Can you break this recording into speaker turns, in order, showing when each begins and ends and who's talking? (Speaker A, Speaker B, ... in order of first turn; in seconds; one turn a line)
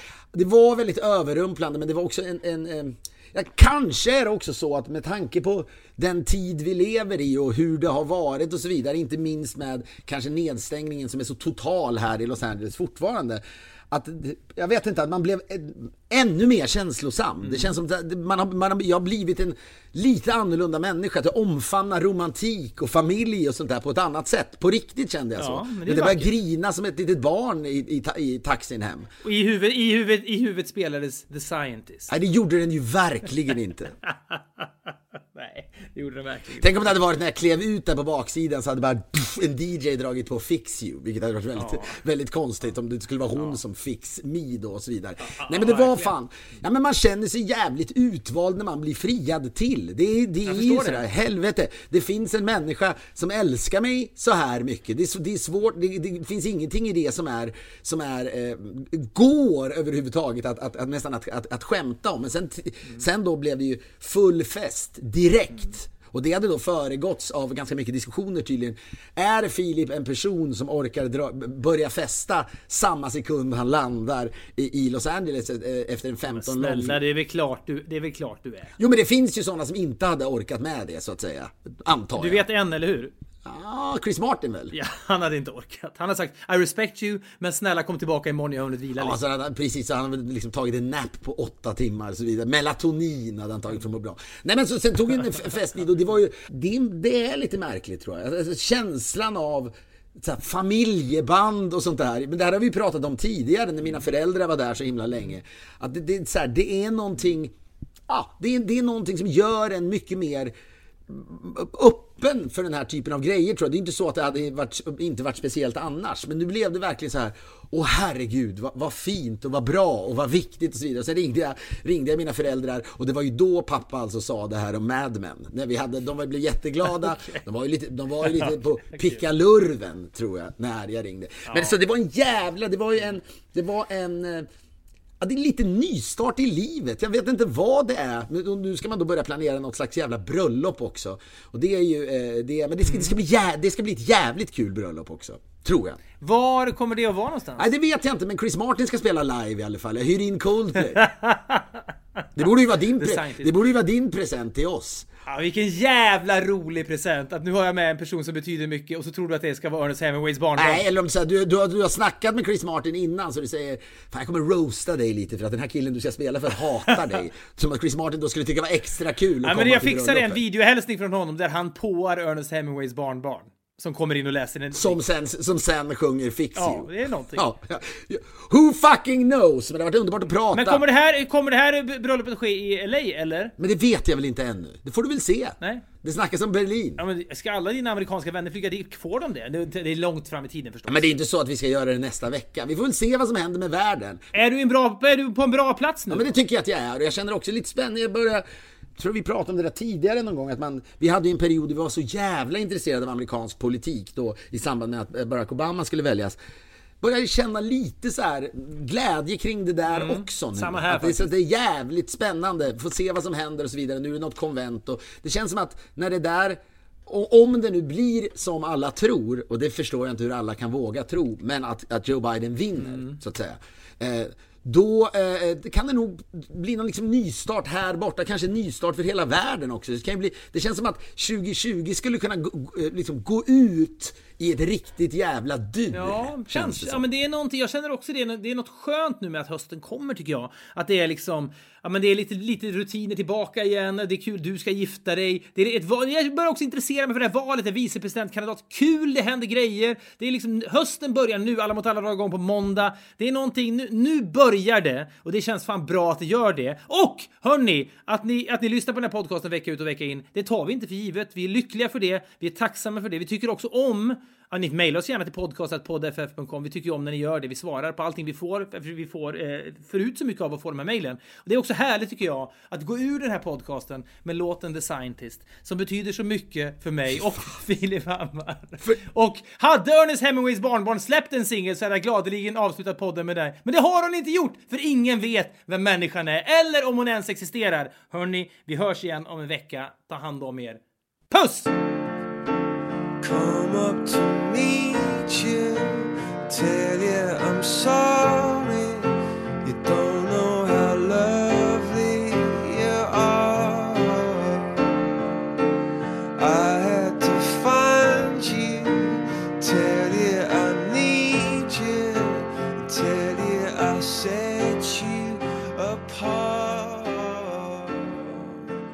Speaker A: 0.3-29.1
Speaker B: 25.4-26.3
Speaker B: 29.2-32.1
Speaker A: 32.1-34.0
Speaker B: 34.3-34.7
Speaker B: 35.4-36.8
Speaker A: 36.6-77.0
Speaker B: 41.5-42.0
Speaker B: 45.2-46.1
Speaker B: 50.5-51.0
Speaker B: 76.3-78.8
Speaker A: 78.8-82.5
Speaker B: 82.2-83.1
Speaker A: 83.5-84.8
Speaker B: 84.7-89.2
Speaker A: 89.0-107.5
Speaker A: 108.1-110.5
Speaker A: 111.1-134.5
Speaker B: 128.4-129.2
Speaker B: 131.4-131.8
Speaker A: 135.2-146.0
Speaker B: 142.9-143.1
Speaker B: 146.2-147.7
Speaker A: 147.6-151.1
Speaker B: 151.0-151.7
Speaker A: 152.3-155.1
Speaker B: 153.0-153.5
Speaker B: 155.3-160.8
Speaker A: 160.6-170.4
Speaker B: 169.4-175.0
Speaker A: 174.7-180.8
Speaker B: 176.6-177.4
Speaker B: 180.5-183.5
Speaker A: 183.6-187.0
Speaker B: 185.6-185.9
Speaker B: 187.0-191.2
Speaker A: 190.9-194.2
Speaker B: 194.3-196.3
Speaker A: 196.1-198.4
Speaker A: 199.0-206.4
Speaker A: 207.0-237.1
Speaker B: 209.9-211.3
Speaker B: 222.9-223.2
Speaker B: 235.9-291.7
Speaker C: 293.2-299.1
Speaker C: 299.6-305.3
Speaker C: 306.4-318.8